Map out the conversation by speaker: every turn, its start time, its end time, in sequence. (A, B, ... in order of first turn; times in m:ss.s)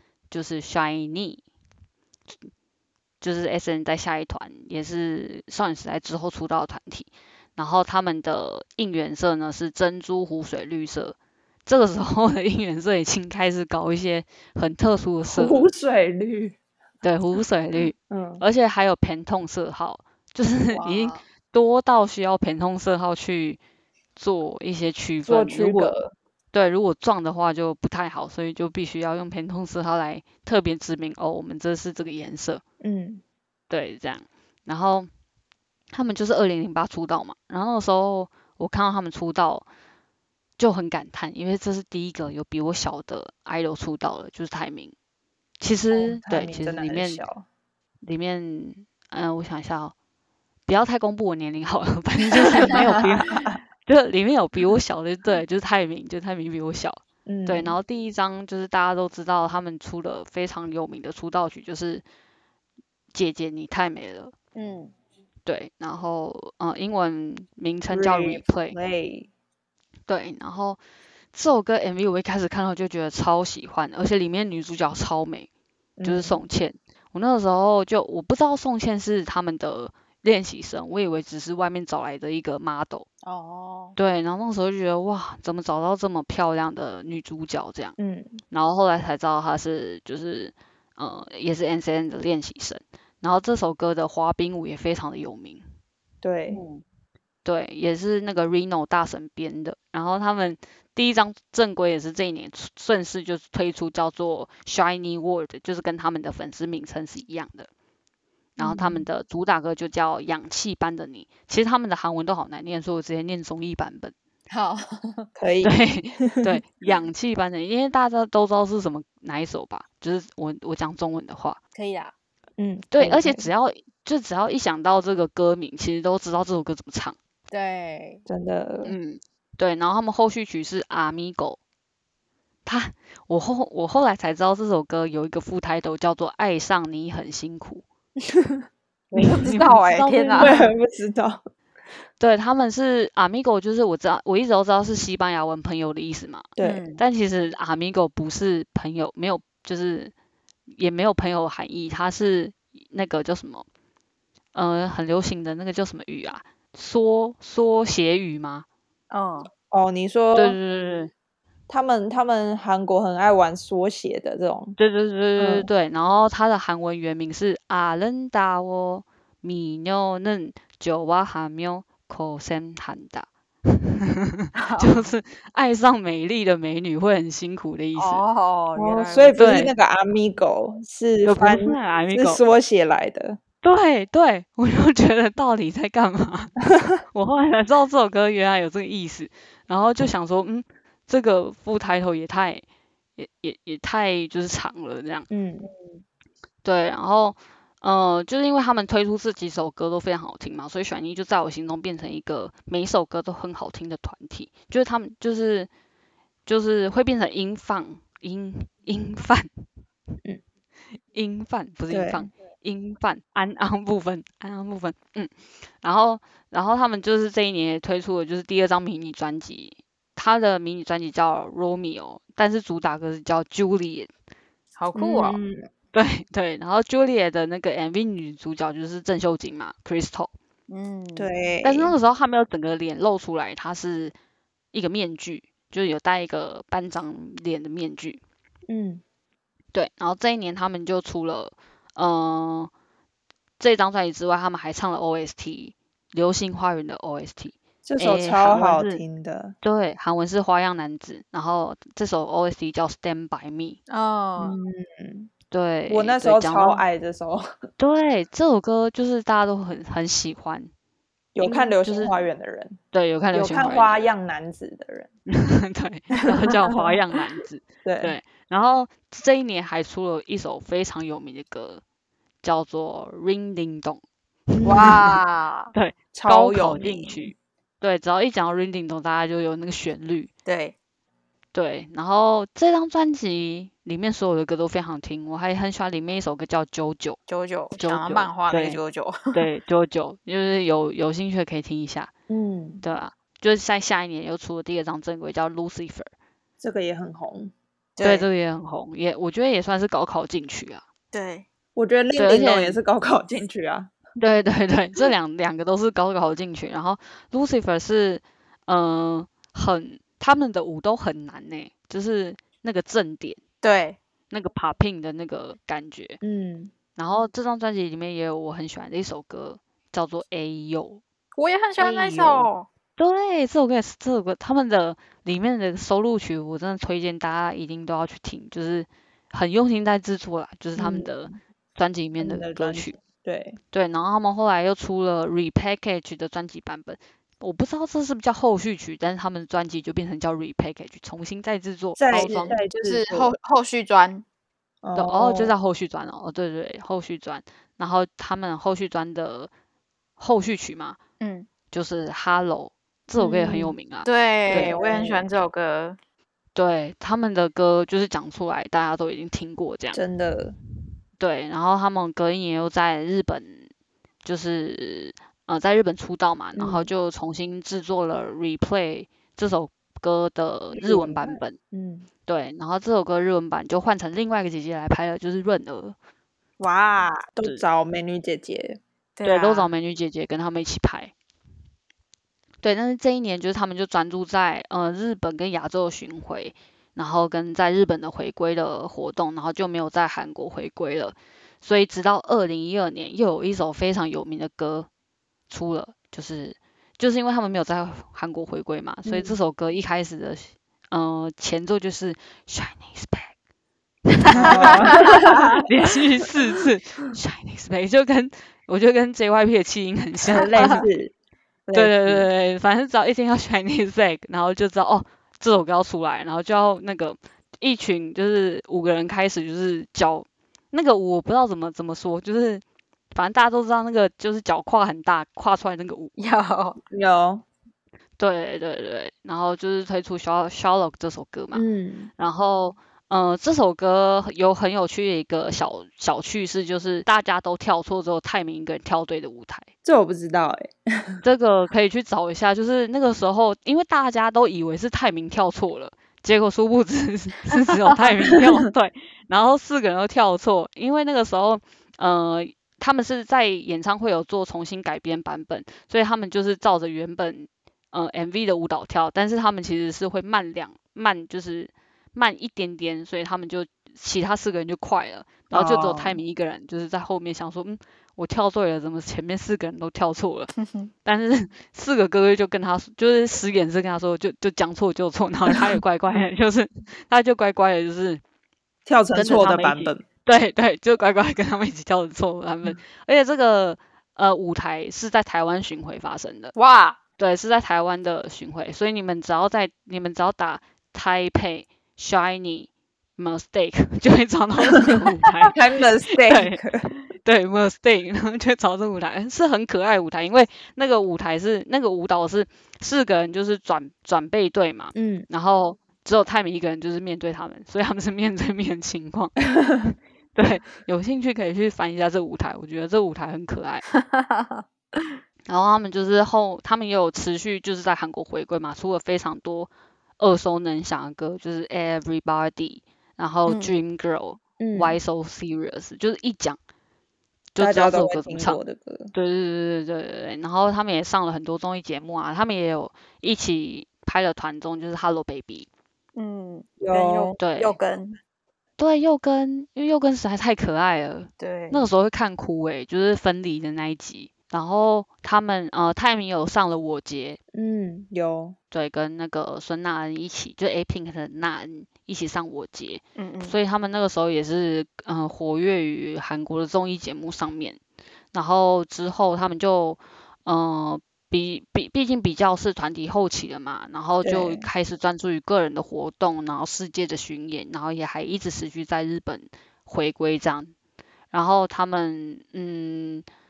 0:00.3-0:01.4 A
0:03.2-0:15.7 A
0:15.3-0:16.6 B
0:17.0-0:23.6 A
0:18.1-0:18.4 B
0:20.7-0:21.2 C
0:24.2-0:26.0 A
0:25.2-0:26.1 B
0:26.5-0:32.6 A
0:32.8-0:33.2 B
0:33.7-0:35.1 A
0:35.9-0:39.6 A
0:40.6-0:44.9 A
0:45.6-0:47.2 A
0:45.9-0:47.4 B
0:48.0-0:49.9 A
0:50.7-1:02.0 A
0:53.0-0:53.5 B
0:57.2-0:57.7 B
1:03.1-1:04.3 A
1:04.6-1:04.9 C
1:05.4-1:08.8 A
1:07.9-1:09.3 B
1:10.1-1:10.8 A
1:11.3-1:15.5 A
1:16.0-1:16.4 B
1:16.0-1:23.1 A
1:23.2-1:24.0 C
1:24.0-1:28.0 A
1:28.0-1:28.4 B
1:28.5-1:35.6 A
1:36.2-1:36.6 B
1:37.4-1:47.7 A
1:48.6-1:49.1 B
1:48.6-1:54.1 A
1:54.5-1:55.3 C
1:55.4-1:56.6 B
1:55.6-2:01.6 A
2:01.8-2:02.1 C
2:02.6-2:03.5 B
2:02.9-2:07.2 A
2:07.5-2:08.2 C
2:08.3-2:08.9 B
2:08.8-2:11.6 A
2:12.6-2:17.8 A
2:19.1-2:19.5 B
2:19.1-2:20.7 A
2:19.2-2:20.6 C
2:20.4-2:21.4 B
2:22.2-2:30.1 A
2:26.6-2:26.8 B
2:26.6-2:27.0 C
2:30.7-2:33.6 A
2:34.5-2:38.6 A
2:39.1-2:39.5 C
2:39.7-2:40.6 B
2:40.3-2:41.1 A
2:41.7-2:44.8 B
2:44.8-2:58.2 A
2:45.4-2:45.7 B
2:54.6-2:55.1 C
2:58.0-2:59.4 C
2:58.7-3:03.4 B
2:59.4-2:59.7 A
3:01.2-3:02.4 A
3:03.6-3:06.6 A
3:07.1-3:12.6 A
3:13.2-3:15.3 A
3:15.3-3:15.7 B
3:16.6-3:25.7 A
3:26.4-3:29.5 A
3:31.1-3:44.1 A
3:31.9-3:32.3 B
3:44.8-3:45.4 C
3:44.9-3:45.6 B
3:45.9-3:50.3 A
3:50.7-3:51.3 C
3:51.2-3:51.9 B
3:51.6-3:54.1 A
3:54.7-3:58.2 A
3:58.7-3:59.0 B
3:59.7-4:02.7 A
4:03.6-4:09.0 A
4:07.8-4:09.5 B
4:09.6-4:13.8 A
4:13.9-4:14.6 C
4:14.4-4:15.3 B
4:15.5-4:16.8 A
4:15.9-4:17.6 B
4:17.8-4:20.7 A
4:21.3-4:22.8 B
4:21.4-4:22.1 A
4:22.9-4:24.1 A
4:23.3-4:25.1 B
4:25.3-4:31.8 A
4:27.8-4:28.2 B
4:32.4-4:34.0 A
4:34.5-4:35.0 B
4:34.5-4:35.2 A
4:34.6-4:35.7 C
4:35.7-4:40.3 A
4:36.1-4:37.3 B
4:40.4-4:40.7 C
4:41.5-4:47.2 A
4:47.3-4:49.4 C
4:47.8-4:48.8 A
4:49.3-4:52.1 A
4:52.3-4:52.8 B
4:52.8-4:56.1 A
4:56.6-4:57.5 B
4:58.0-4:58.3 C
4:58.0-5:00.8 A
5:01.1-5:01.4 C
5:01.7-5:03.9 B
5:02.2-5:02.8 A
5:04.2-5:13.4 A
5:13.6-5:14.0 C
5:14.3-5:16.2 A
5:16.2-5:16.7 B
5:17.0-5:21.0 A
5:21.3-5:22.7 C
5:21.8-5:33.0 A
5:30.8-5:31.1 B
5:32.2-5:33.6 B
5:33.7-5:42.6 A
5:42.0-5:43.3 B
5:42.2-5:44.2 C
5:44.8-5:45.5 B
5:44.9-5:49.5 A
5:50.2-5:51.0 A
5:51.2-5:51.5 C
5:51.7-5:54.7 A
5:53.1-5:53.8 B
5:54.0-5:56.0 C
5:54.5-5:55.3 B
5:56.5-6:00.0 A
5:59.9-6:00.5 B
6:01.2-6:03.7 A
6:04.2-6:11.6 A
6:06.6-6:06.9 B
6:10.7-6:12.1 B
6:12.3-6:16.0 A
6:16.6-6:17.3 C
6:17.3-6:18.8 B
6:19.2-6:19.7 C
6:19.2-6:21.1 A
6:22.6-6:34.9 A
6:35.5-6:43.3 A
6:39.0-6:39.3 B
6:44.1-6:50.9 A
6:44.3-6:45.6 B
6:44.3-6:45.4 C
6:50.3-6:51.1 B
6:51.7-6:52.3 B
6:51.7-7:02.6 A
7:03.1-7:06.1 A
7:06.2-7:06.8 C
7:06.9-7:07.4 B
7:08.2-7:11.6 A
7:11.5-7:12.1 B
7:12.2-7:19.7 A
7:19.8-7:21.2 B
7:21.2-7:50.5 A
7:45.5-7:46.2 B
7:50.6-7:50.9 C
7:51.0-7:58.2 A
7:58.8-8:00.0 B
7:59.1-8:06.5 A
8:06.6-8:07.0 C
8:07.2-8:15.5 A
8:15.4-8:16.9 B
8:16.1-8:16.6 A
8:17.1-8:33.8 A
8:24.9-8:25.3 B
8:33.9-8:35.1 C
8:35.5-8:46.6 A
8:43.5-8:43.7 C
8:44.6-8:45.0 B
8:47.5-8:48.6 A
8:47.6-8:49.1 B
8:49.1-8:55.7 A
8:56.1-8:58.2 C
8:56.8-8:57.4 B
8:57.4-8:57.8 A
8:58.8-9:07.4 A
9:01.4-9:01.9 C
9:07.5-9:08.6 B
9:08.7-9:17.8 A
9:13.2-9:13.6 C
9:18.3-9:30.7 A
9:24.2-9:24.7 B
9:31.3-9:33.2 A